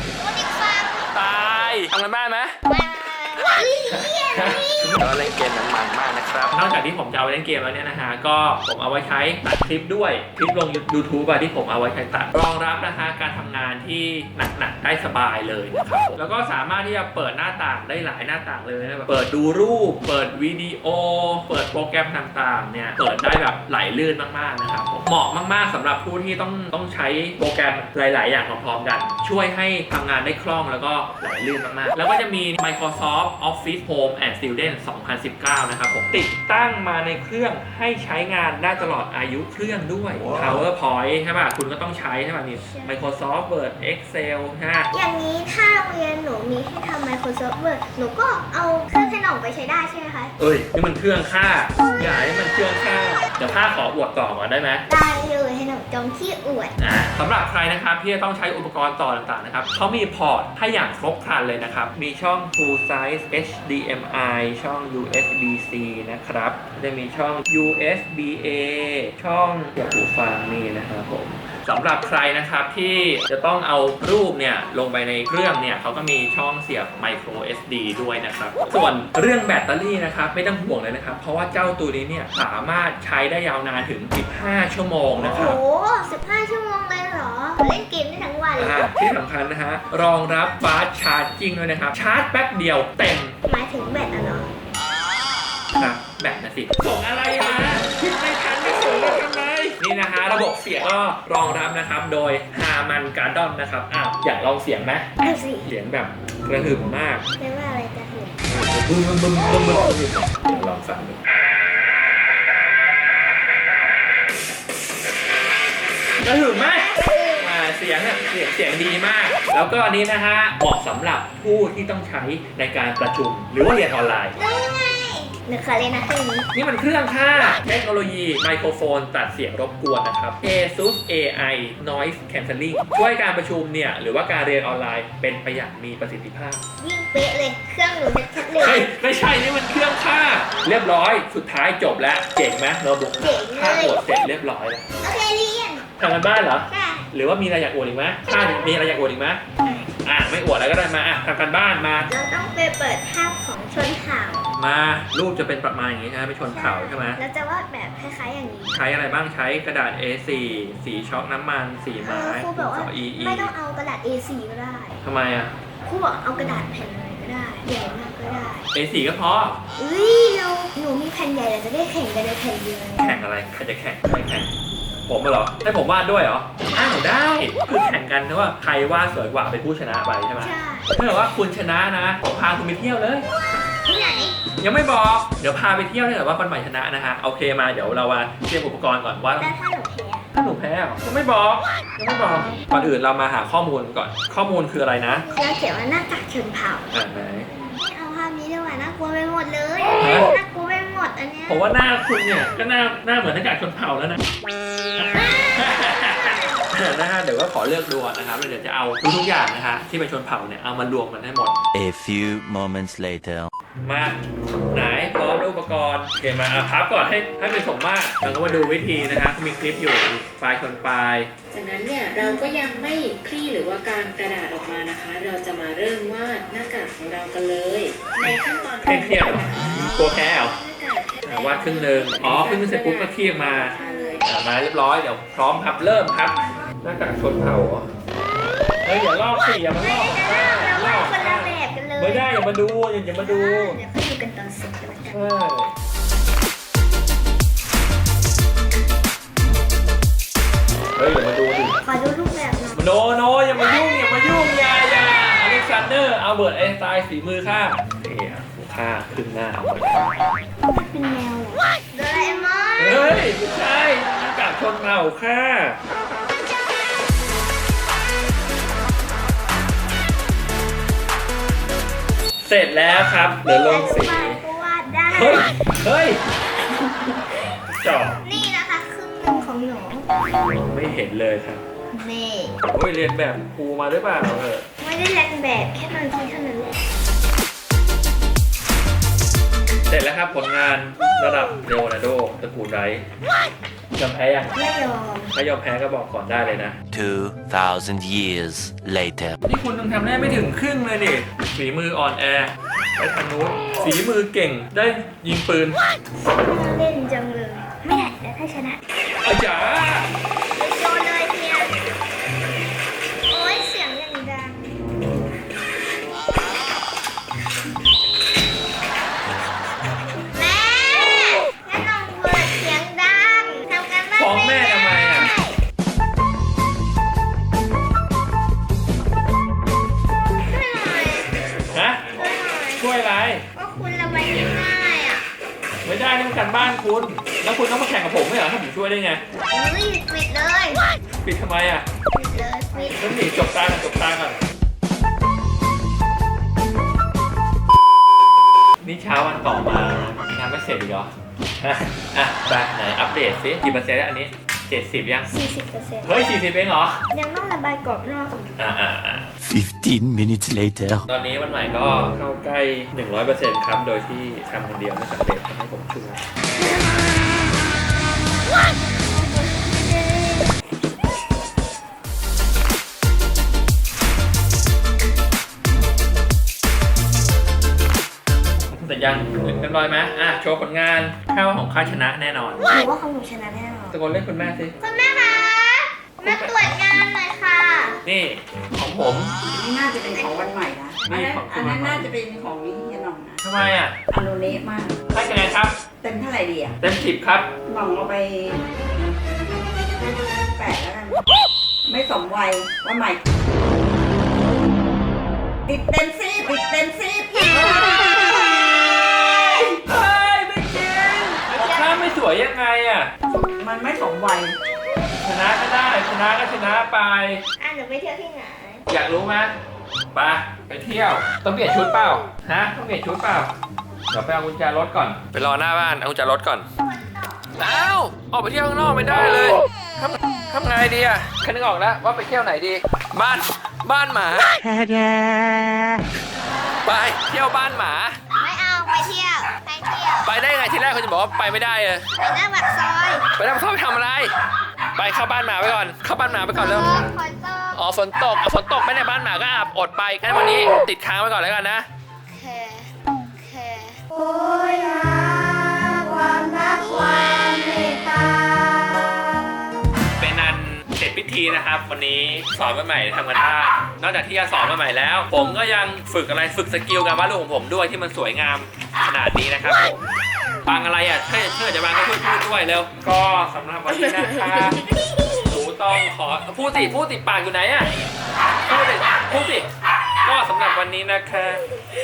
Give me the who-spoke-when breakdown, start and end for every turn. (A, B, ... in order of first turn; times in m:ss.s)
0:00.2-0:01.0 A
0:01.1-0:02.6 B
0:02.7-0:04.9 A
0:03.4-0:44.9 B
0:42.7-0:43.0 A
0:44.9-0:50.3 A
0:50.4-0:54.8 B
0:54.9-0:56.8 A
0:56.8-1:25.6 B
1:25.2-1:28.9 A
1:28.6-1:33.4 B
1:33.5-1:34.6 A
1:35.8-1:45.1 B
1:45.2-1:45.7 A
1:45.6-1:47.2 B
1:47.4-1:48.4 A
1:48.5-1:51.2 B
1:56.2-2:04.4 B
1:56.5-1:57.5 A
2:04.4-2:06.5 A
2:06.5-2:16.6 B
2:16.8-2:18.8 A
2:18.5-2:24.8 B
2:23.2-2:24.0 A
2:25.0-2:25.8 A
2:26.0-2:29.4 B
2:26.7-2:27.1 A
2:28.3-2:29.0 A
2:29.6-2:29.9 A
2:30.0-2:32.1 B
2:32.1-2:34.5 A
2:34.6-2:37.2 B
2:36.4-2:38.8 A
2:38.7-2:43.5 B
2:42.0-2:45.0 A
2:45.0-2:45.5 B
2:45.9-2:48.7 A
2:48.7-2:49.6 B
2:49.8-2:53.2 A
2:53.0-2:54.5 B
2:55.1-3:03.3 B
3:00.4-3:00.9 A
3:03.3-3:04.4 A
3:04.6-3:09.5 B
3:09.4-3:10.3 A
3:10.3-3:15.3 B
3:15.1-3:16.9 A
3:16.9-3:17.5 B
3:17.5-3:21.6 A
3:20.0-3:20.3 B
3:21.5-3:24.2 B
3:25.0-3:31.6 B
3:25.1-3:26.7 A
3:31.7-3:33.5 C
3:33.8-3:34.2 B
3:34.7-3:41.3 B
3:41.5-3:54.3 D
3:48.8-3:50.6 B
3:51.2-3:57.9 B
3:53.8-3:54.2 A
3:58.8-4:03.8 B
3:59.8-4:02.4 A
4:03.2-4:05.2 A
4:05.1-4:05.7 B
4:11.0-4:11.8 B
4:11.8-4:12.8 A
4:12.8-4:20.1 B
4:20.6-4:23.3 A
4:22.8-4:25.8 B
4:32.4-4:34.4 B
4:33.4-4:35.7 A
4:35.1-4:36.2 B
4:37.7-4:38.2 B
4:38.2-4:40.1 A
4:40.5-4:41.6 B
4:41.9-4:42.6 A
4:42.7-4:44.6 B
4:44.8-4:46.8 A
4:49.9-4:53.0 B
4:54.0-4:54.5 B
4:54.6-4:55.3 A
4:55.3-4:56.8 B
4:56.9-4:59.4 C
4:59.4-5:05.8 B
5:06.2-5:08.8 A
5:09.2-5:10.1 B
5:10.6-5:11.7 A
5:13.3-5:14.6 A
5:20.3-5:25.6 A
5:24.2-5:25.3 B
5:30.5-5:31.5 A
5:31.6-5:32.3 B
5:32.1-5:32.8 A
5:32.8-5:33.4 B
5:33.6-5:35.2 A
5:35.8-5:39.2 B
5:39.5-5:40.8 A
5:41.2-5:41.9 B
5:42.1-5:43.0 A
5:42.9-5:44.4 B
5:48.8-5:55.3 B
5:55.3-5:56.1 A
5:56.0-5:57.0 B
5:57.1-5:58.5 A
5:58.6-5:59.3 B
5:59.5-6:01.1 C
6:01.1-6:06.2 B
6:18.7-6:22.8 B
6:22.7-6:24.0 A
6:23.9-6:24.8 B
6:24.8-6:28.0 A
6:26.2-6:26.6 B
6:28.0-6:29.3 B
6:29.4-6:33.4 E
6:31.1-6:32.1 B
6:33.4-6:34.0 B
6:34.1-6:35.0 E
6:35.1-6:35.8 B
6:36.0-6:36.8 E
6:36.8-6:37.5 B
6:37.7-6:38.6 E
6:40.3-6:41.2 E
6:41.9-6:43.2 E
6:45.6-6:47.9 E
6:49.5-6:53.1 B
6:51.6-6:51.9 A
6:53.3-6:54.6 E
6:55.2-6:57.4 B
6:57.6-6:58.8 A
6:58.9-6:59.6 B
7:00.1-7:03.5 B
7:04.1-7:06.7 B
7:06.8-7:07.5 A
7:07.6-7:14.6 B
7:16.4-7:16.9 A
7:16.8-7:18.2 B
7:18.3-7:20.3 A
7:20.2-7:22.1 B
7:22.2-7:23.2 A
7:23.4-7:24.3 B
7:25.0-7:27.1 B
7:26.5-7:27.8 A
7:27.7-7:31.9 B
7:32.3-7:39.2 A
7:40.2-7:50.0 B
7:50.7-7:54.9 B
7:55.4-7:57.9 B
7:58.7-7:59.7 B
8:00.2-8:01.6 B